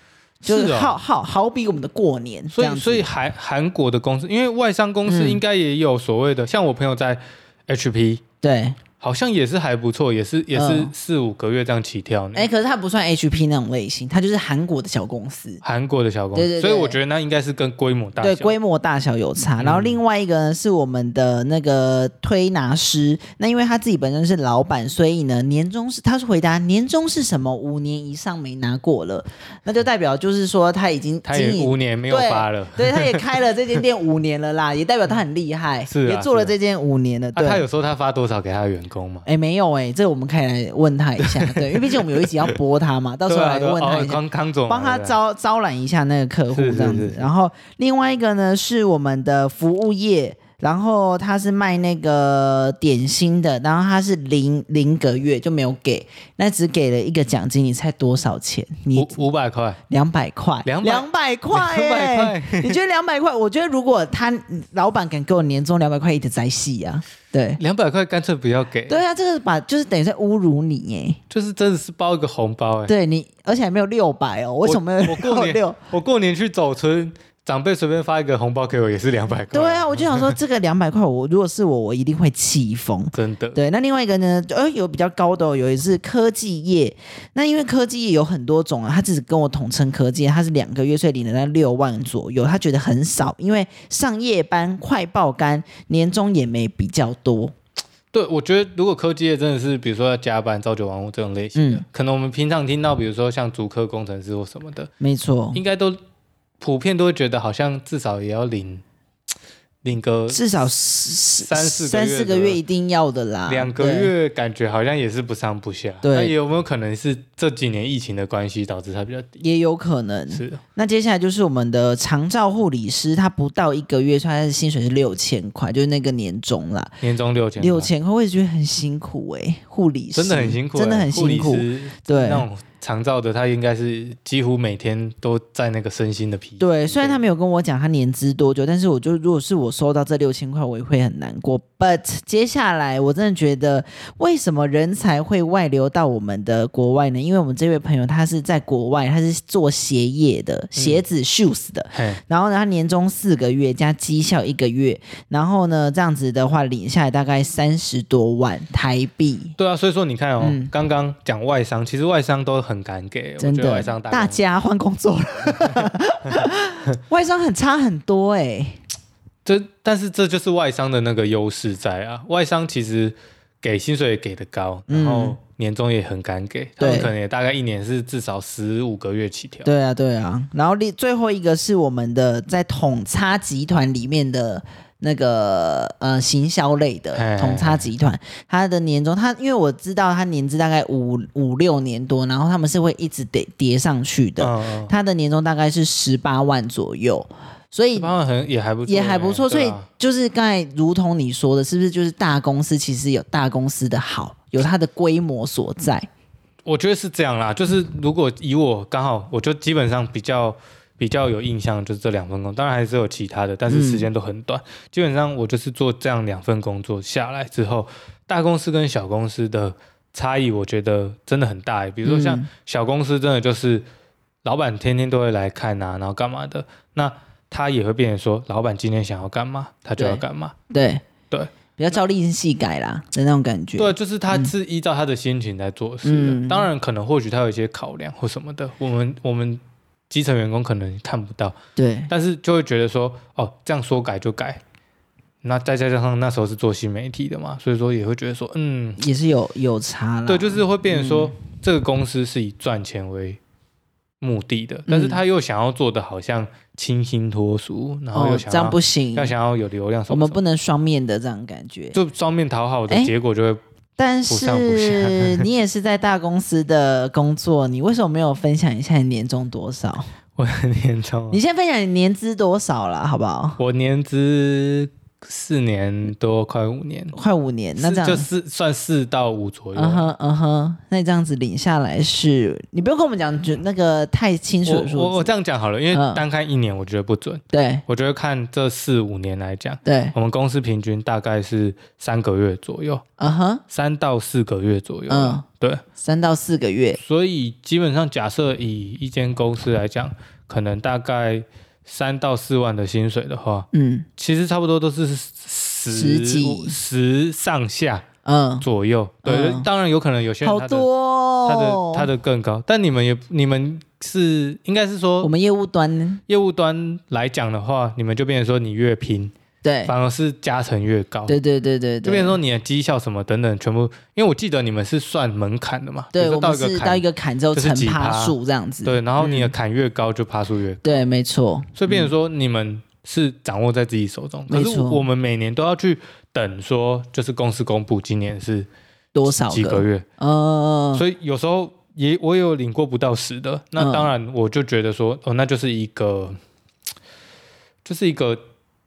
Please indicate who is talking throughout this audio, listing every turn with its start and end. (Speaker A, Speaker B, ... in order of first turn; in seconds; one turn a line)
Speaker A: 0.4-1.0
Speaker B: 0.4-3.1
Speaker A: 2.5-8.2
Speaker B: 5.1-5.4
Speaker B: 8.4-8.8
Speaker A: 9.0-12.5
Speaker B: 10.5-10.9
Speaker B: 12.3-15.6
Speaker A: 15.6-18.6
Speaker B: 16.4-17.0
Speaker B: 18.2-37.6
Speaker A: 19.6-20.0
Speaker A: 31.3-33.4
Speaker A: 35.9-36.5
Speaker A: 37.3-39.3
Speaker B: 39.3-59.2
Speaker A: 41.2-42.5
Speaker A: 43.3-45.2
Speaker A: 46.5-47.3
Speaker A: 58.9-59.8
Speaker B: 59.9-67.6
Speaker A: 60.6-62.8
Speaker A: 67.6-69.0
Speaker B: 68.9-71.2
Speaker A: 71.3-72.9
Speaker B: 72.9-75.8
Speaker A: 74.6-80.4
Speaker B: 79.5-97.5
Speaker A: 83.1-83.6
Speaker A: 98.1-104.9
Speaker B: 101.5-101.8
Speaker B: 105.0-105.6
Speaker A: 105.5-106.0
Speaker A: 106.6-108.8
Speaker A: 109.8-110.4
Speaker B: 110.3-114.1
Speaker A: 111.4-112.6
Speaker A: 113.5-119.4
Speaker B: 116.0-116.3
Speaker B: 119.4-127.0
Speaker A: 120.3-120.6
Speaker A: 127.0-127.9
Speaker B: 127.6-132.5
Speaker A: 130.2-137.2
Speaker B: 136.6-159.6
Speaker A: 150.8-151.0
Speaker A: 151.9-152.2
Speaker A: 159.6-164.4
Speaker B: 160.4-160.7
Speaker B: 163.4-168.8
Speaker A: 169.4-179.7
Speaker B: 174.9-175.4
Speaker B: 176.8-177.1
Speaker B: 179.7-198.1
Speaker A: 187.1-187.9
Speaker A: 194.4-194.9
Speaker A: 197.9-199.9
Speaker B: 198.9-206.1
Speaker A: 206.7-223.8
Speaker B: 213.7-214.1
Speaker B: 222.0-222.5
Speaker A: 224.4-230.6
Speaker B: 230.0-231.0
Speaker B: 231.8-234.5
Speaker A: 233.8-241.6
Speaker B: 236.0-236.7
Speaker B: 241.8-242.1
Speaker A: 242.1-244.6
Speaker A: 245.4-249.0
Speaker B: 249.0-251.3
Speaker A: 250.3-253.4
Speaker A: 254.2-260.4
Speaker B: 254.9-255.2
Speaker B: 258.1-259.3
Speaker B: 260.1-262.0
Speaker A: 261.9-263.6
Speaker B: 264.0-270.1
Speaker A: 264.3-265.5
Speaker A: 270.4-271.4
Speaker B: 271.3-273.6
Speaker A: 273.6-277.1
Speaker B: 277.1-278.3
Speaker A: 277.8-280.1
Speaker B: 279.8-285.3
Speaker A: 284.6-293.0
Speaker B: 285.9-286.2
Speaker B: 287.5-287.8
Speaker B: 289.9-290.1
Speaker B: 293.2-293.6
Speaker A: 293.7-295.8
Speaker B: 295.1-295.4
Speaker B: 296.0-297.0
Speaker A: 297.0-308.1
Speaker B: 303.7-304.1
Speaker B: 305.9-306.8
Speaker B: 308.2-308.7
Speaker A: 308.6-310.9
Speaker B: 309.2-309.7
Speaker B: 310.4-312.1
Speaker A: 311.4-315.3
Speaker B: 315.2-316.2
Speaker A: 316.3-319.3
Speaker B: 319.6-319.9
Speaker A: 319.9-321.4
Speaker B: 321.3-322.4
Speaker A: 322.0-331.0
Speaker B: 326.1-329.5
Speaker B: 330.8-332.1
Speaker A: 331.8-338.7
Speaker B: 334.5-335.0
Speaker B: 339.1-341.0
Speaker A: 339.3-340.1
Speaker A: 340.9-346.4
Speaker B: 343.8-344.1
Speaker A: 347.9-348.4